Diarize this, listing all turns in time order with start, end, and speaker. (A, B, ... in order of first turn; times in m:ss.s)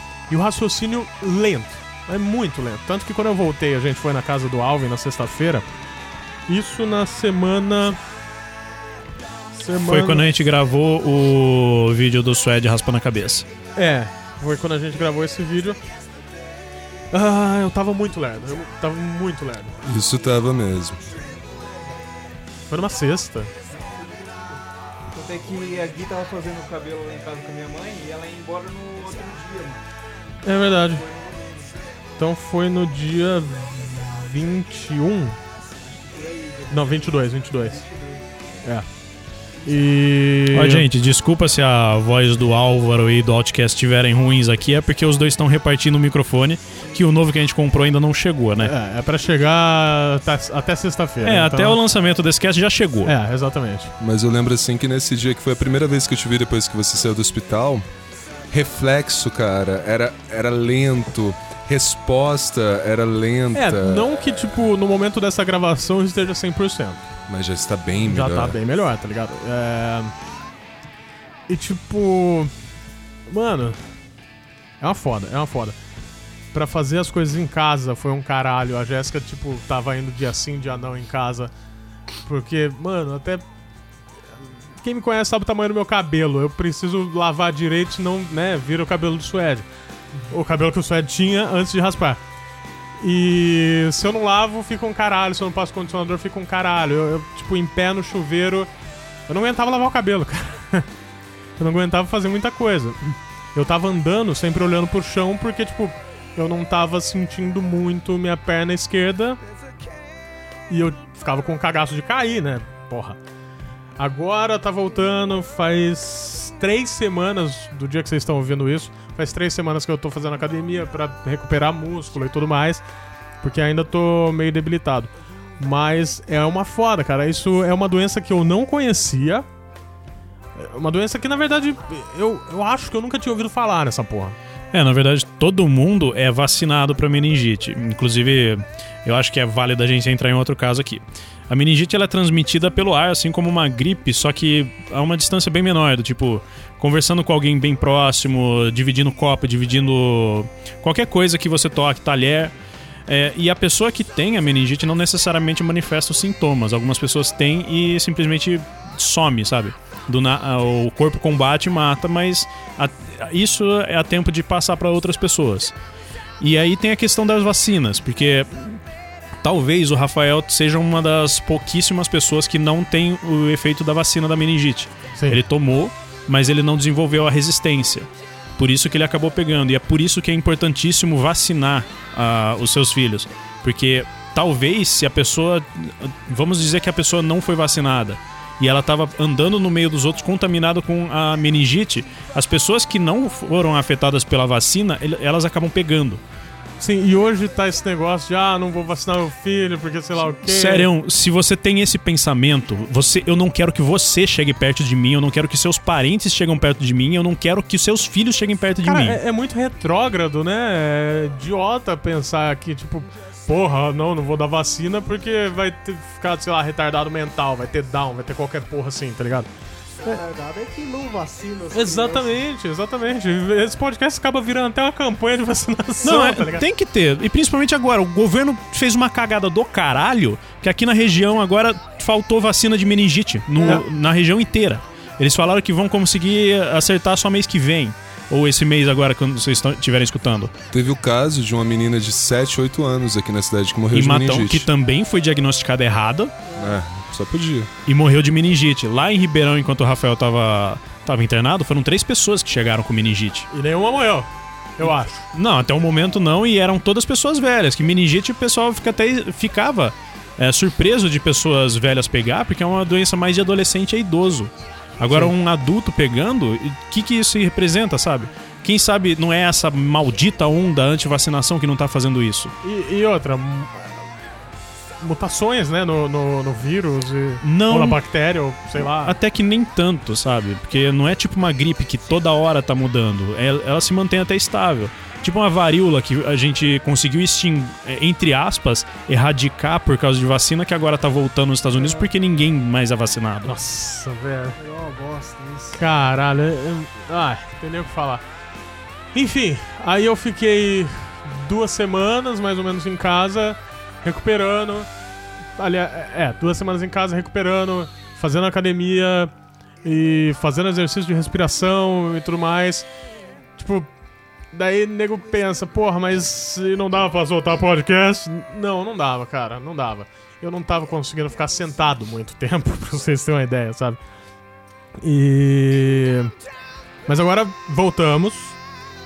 0:00.3-0:05.6 A
0:06.5-0:08.0 A
0:09.5-0:10.3 A
0:09.8-0:13.5 B
0:13.8-0:15.8 A
0:17.1-0:19.8 A
0:19.8-0:21.0 C
0:21.1-0:22.1 D
0:22.7-0:23.5 A
0:23.7-0:24.6 D
0:25.1-0:29.8 D
0:30.4-0:31.0 A
0:30.5-0:31.8 D
0:32.2-0:35.4 A
0:35.8-0:38.4 D
0:36.7-0:37.8 A
0:39.7-0:40.9 A
0:40.5-0:48.7 B
0:48.6-0:51.8 A
0:51.2-0:53.2 B
0:53.0-0:53.9 A
0:54.0-0:57.8 C
0:58.5-1:04.6 C
1:03.5-1:07.1 A
1:07.3-1:08.6 C
1:08.0-1:10.1 A
1:11.5-1:12.5 A
1:13.3-1:13.8 A
1:14.8-1:15.8 A
1:16.5-1:21.5 A
1:22.3-1:23.4 A
1:24.8-1:29.7 A
1:30.2-1:32.2 A
1:33.0-1:38.7 A
1:39.3-1:40.9 A
1:41.6-1:49.4 A
1:50.7-1:53.2 A
1:54.0-2:02.8 A
2:03.4-2:09.5 A
2:10.6-2:14.4 A
2:14.7-2:32.5 B
2:33.1-2:45.7 B
2:46.4-2:48.8 B
2:49.4-3:16.2 B
3:16.8-3:20.9 A
3:20.5-3:29.2 B
3:28.8-3:39.5 A
3:40.0-3:42.4 E
3:41.7-3:46.7 A
3:46.0-4:00.5 B
4:00.7-4:04.7 C
4:03.9-4:06.4 B
4:06.5-4:06.8 E
4:06.6-4:07.7 C
4:07.9-4:13.5 B
4:13.5-4:15.3 A
4:15.3-4:32.5 B
4:32.6-4:34.0 A
4:35.0-4:39.2 A
4:37.4-4:38.0 B
4:39.0-4:53.6 B
4:53.4-4:54.6 A
4:54.6-4:55.8 E
4:55.8-4:58.2 A
4:59.1-5:04.9 A
5:05.6-5:09.3 A
5:09.8-5:12.9 A
5:13.6-5:13.9 A
5:14.5-5:24.0 A
5:25.0-5:26.3 A
5:27.1-5:28.6 A